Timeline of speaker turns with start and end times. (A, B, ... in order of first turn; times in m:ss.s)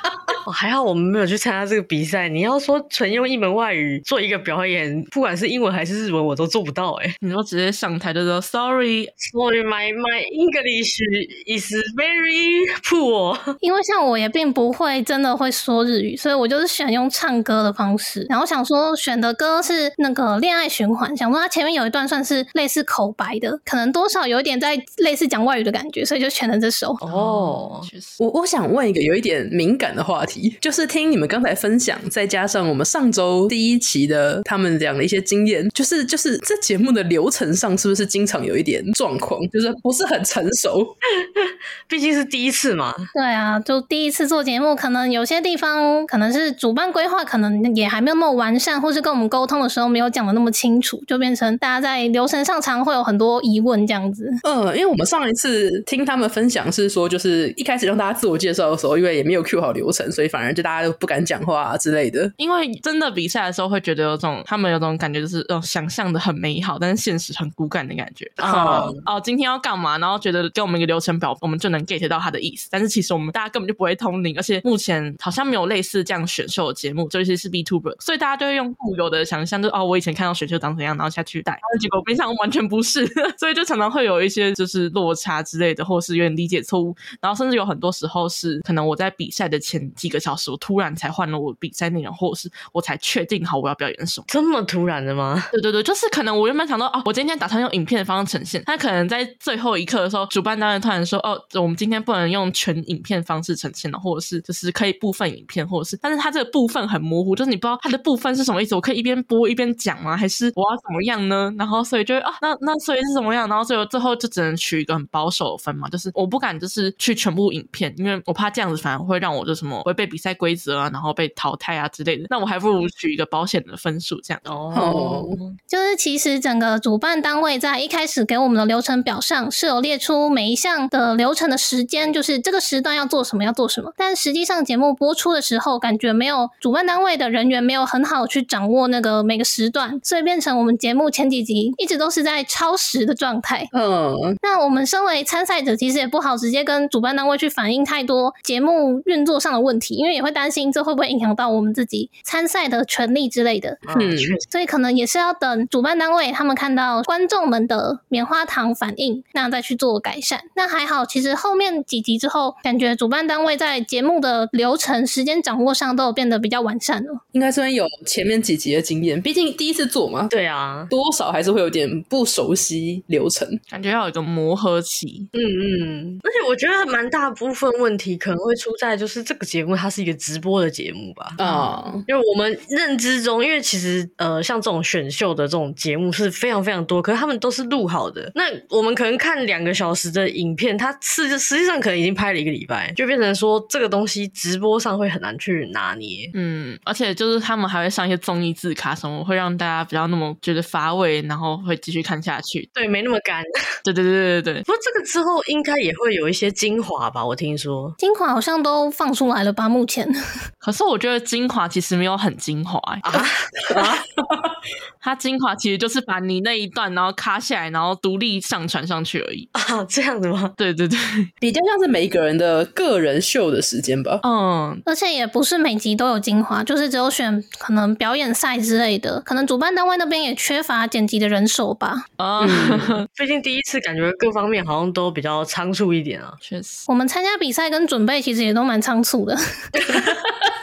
0:00.4-0:07.2 A
0:07.2-0:09.1 B
0:09.2-0:13.5 A
0:13.6-0:27.0 C
0:27.0-0:27.9 A
0:27.1-0:28.2 B
0:28.2-0:40.9 D
0:41.2-0:43.1 A
0:43.1-0:54.4 C
0:54.4-1:02.3 D
1:02.4-1:34.3 B
1:08.4-1:09.0 A
1:08.4-1:08.9 D
1:34.3-1:35.5 A
1:35.5-2:04.4 B
2:04.4-2:05.6 A
2:04.7-2:05.4 D
2:05.7-2:23.7 C
2:23.7-2:24.4 D
2:24.4-2:33.8 C
2:33.8-2:34.5 A
2:33.9-2:34.4 D
2:34.5-2:47.2 C
2:47.3-2:50.3 D
2:50.3-2:50.9 A
2:50.9-2:53.6 D
2:53.7-2:55.3 B
2:55.3-3:01.4 A
3:01.4-3:02.0 D
3:01.4-3:01.7 B
3:02.1-3:16.3 A
3:16.3-3:22.7 B
3:22.7-3:23.5 A
3:23.8-3:24.6 B
3:24.7-3:28.0 A
3:28.0-3:30.1 C
3:30.6-3:33.3 B
3:33.0-3:34.0 A
3:35.0-3:39.5 B
3:39.5-3:40.5 A
3:40.6-3:41.3 B
3:41.4-3:44.2 D
3:44.2-3:44.8 B
3:44.9-3:52.0 C
3:52.2-3:53.0 B
3:52.4-3:53.0 D
3:53.1-3:56.4 A
3:56.4-3:56.9 B
3:56.9-3:59.4 C
3:59.7-4:00.1 A
3:59.9-4:00.3 D